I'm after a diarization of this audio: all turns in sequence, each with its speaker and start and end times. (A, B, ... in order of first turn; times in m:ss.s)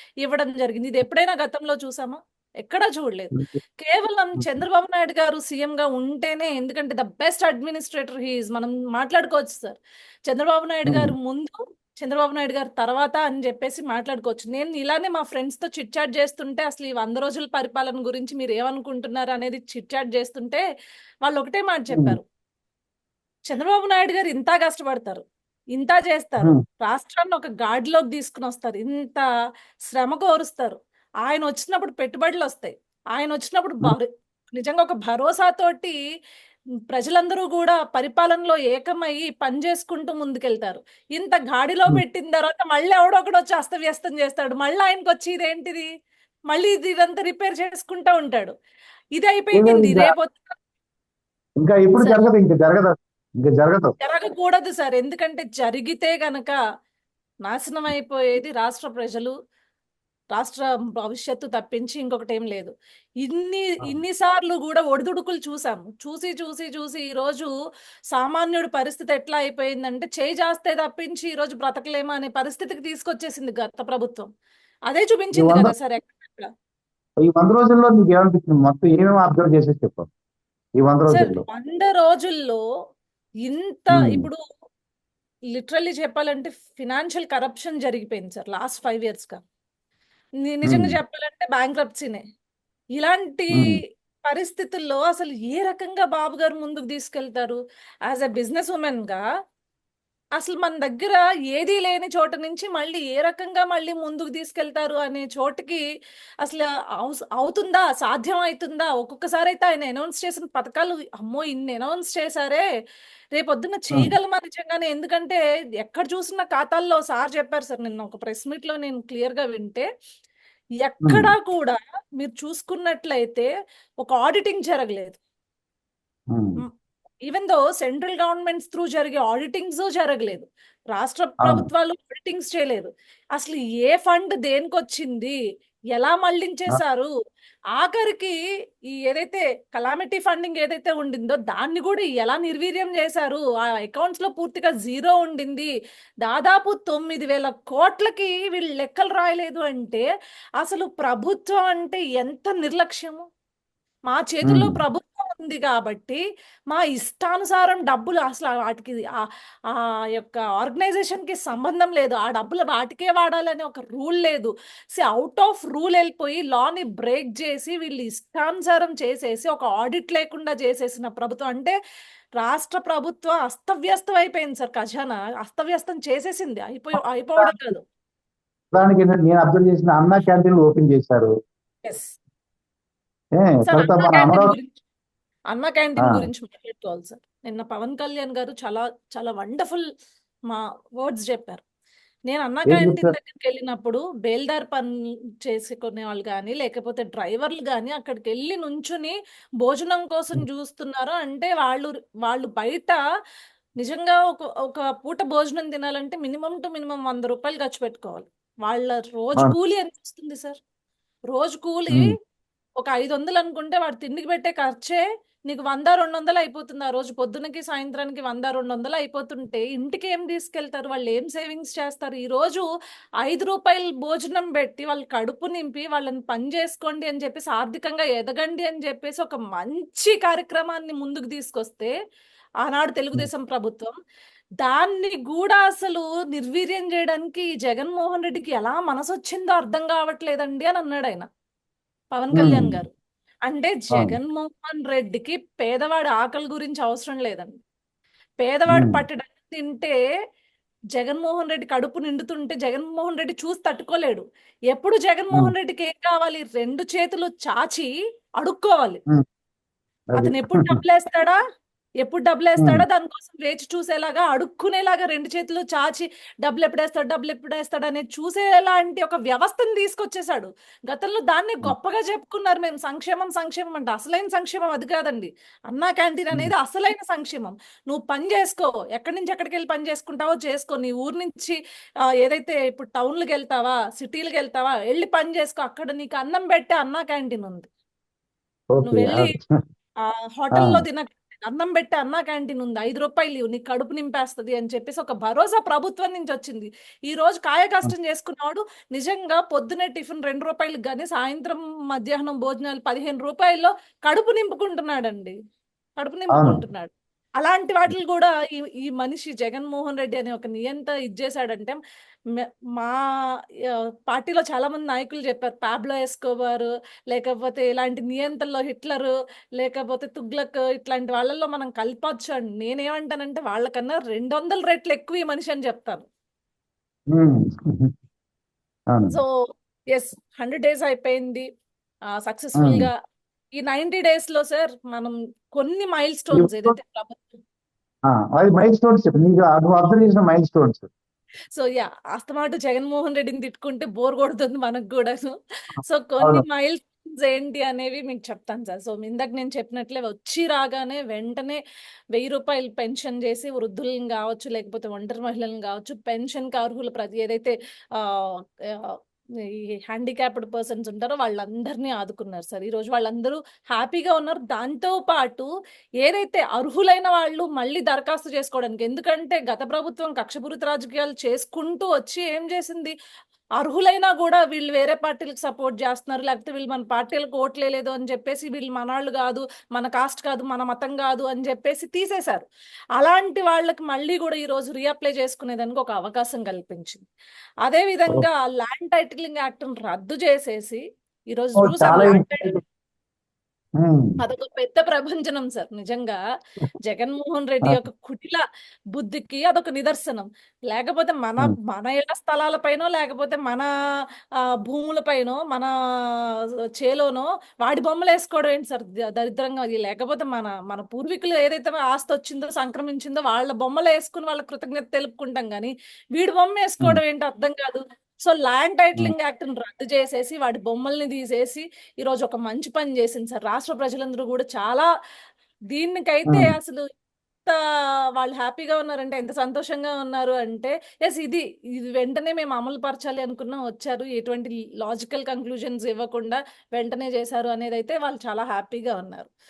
0:00.2-0:20.6 A
0:10.9-0:11.1 B
0:21.2-0:22.2 A
0:21.9-0:22.2 B
0:23.4-0:25.2 A
0:25.7-0:29.2 A
0:29.9-0:36.0 A
0:36.9-0:45.9 A
0:46.5-0:48.5 A
0:49.2-0:50.6 A
0:49.5-0:50.1 B
0:51.6-0:53.9 B
0:54.0-0:56.6 A
0:57.4-0:59.3 A
1:00.3-1:07.5 A
1:08.1-1:14.3 A
1:14.9-1:16.5 A
1:15.3-1:15.7 B
1:17.2-1:20.1 B
1:20.8-1:21.4 B
1:21.1-1:22.6 A
1:23.4-1:24.4 A
1:23.9-1:24.3 B
1:25.5-1:29.4 A
1:30.4-1:32.2 A
1:30.6-1:31.0 B
1:33.0-1:39.2 A
1:33.5-1:33.8 B
1:40.4-1:45.8 A
1:46.4-1:52.6 A
1:53.3-1:59.9 A
2:00.8-2:03.5 A
2:01.0-2:01.3 B
2:04.0-2:05.2 A
2:06.3-2:06.6 B
2:07.2-2:15.4 A
2:11.4-2:11.7 B
2:15.9-2:17.1 A
2:17.7-2:18.4 A
2:18.9-2:25.7 A
2:26.2-2:30.0 A
2:30.6-2:33.2 A
2:34.1-2:51.7 A
2:34.4-2:34.8 B
2:52.4-2:57.8 A
2:57.0-2:57.7 B
2:58.7-3:01.3 B
3:01.8-3:02.1 A
3:03.4-3:04.5 B
3:03.7-3:04.8 A
3:05.5-3:09.8 A
3:06.0-3:06.3 B
3:10.5-3:11.6 A
3:12.3-3:14.9 A
3:12.7-3:13.1 B
3:15.4-3:23.0 A
3:23.8-3:30.6 A
3:31.3-3:32.1 A
3:32.8-3:42.6 A
3:43.2-3:51.9 A
3:52.6-3:53.9 A
3:54.6-4:01.3 A
4:02.1-4:02.9 A
4:02.4-4:02.8 B
4:03.4-4:07.6 A
4:08.4-4:09.9 A
4:08.7-4:09.0 B
4:10.9-4:17.9 A
4:18.4-4:19.0 A
4:20.1-4:20.8 B
4:20.2-4:21.4 A
4:22.0-4:41.6 A
4:22.6-4:22.8 B
4:42.1-4:47.7 A
4:48.7-4:49.6 B
4:48.8-4:49.4 A
4:50.0-5:05.3 A
4:50.5-4:50.8 B
5:06.0-5:11.8 A
5:06.3-5:06.6 B
5:12.3-5:13.0 A
5:13.7-5:26.1 A
5:27.1-5:27.9 B
5:29.1-5:31.4 A
5:32.1-5:33.0 A
5:32.6-5:32.9 B
5:33.5-5:37.4 A
5:36.3-5:36.7 B
5:38.1-5:40.9 B
5:41.5-5:45.3 A
5:45.8-5:51.6 A
5:52.1-6:05.5 A
6:06.0-6:12.9 A
6:13.6-6:22.4 A
6:23.0-6:27.0 A
6:27.6-6:32.5 A
6:31.6-6:32.6 B
6:33.8-6:34.2 B
6:34.2-6:36.2 A
6:36.8-6:43.7 A
6:44.6-6:45.7 A
6:46.7-7:04.9 A
7:05.7-7:06.8 A
7:06.3-7:06.5 B
7:08.2-7:19.3 A